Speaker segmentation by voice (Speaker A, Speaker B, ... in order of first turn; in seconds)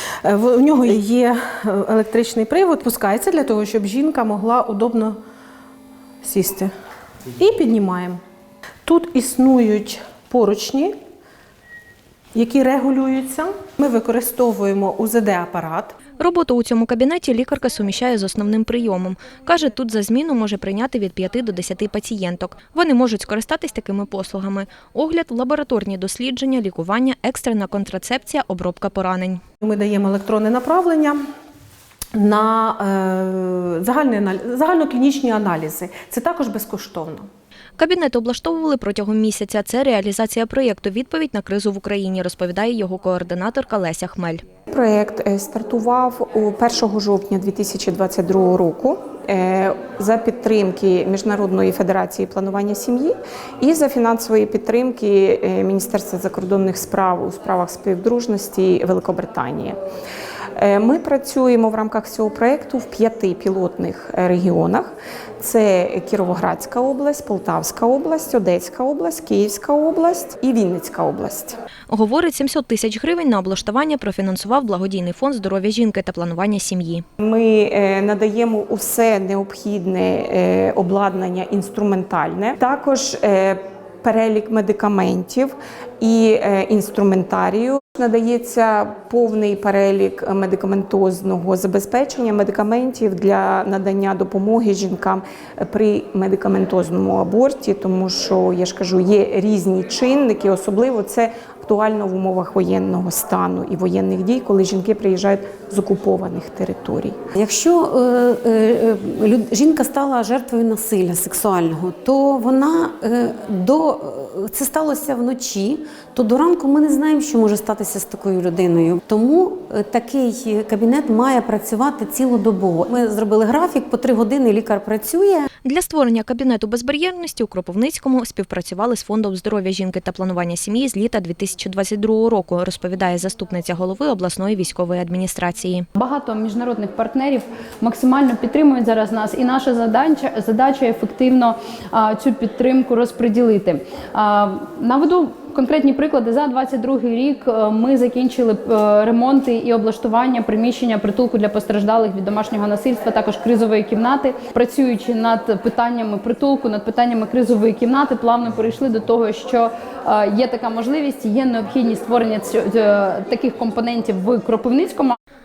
Speaker A: 0.2-5.2, 6.2-6.7, 7.3-8.2, 8.9-10.9, 12.3-16.0, 29.6-31.2, 32.1-37.3
Speaker B: 16.2-29.4, 37.8-44.4, 71.9-77.0, 125.6-135.9
Speaker C: 44.7-59.8, 60.6-71.5, 77.2-107.2
Speaker D: 107.3-125.5
Speaker E: 136.0-165.2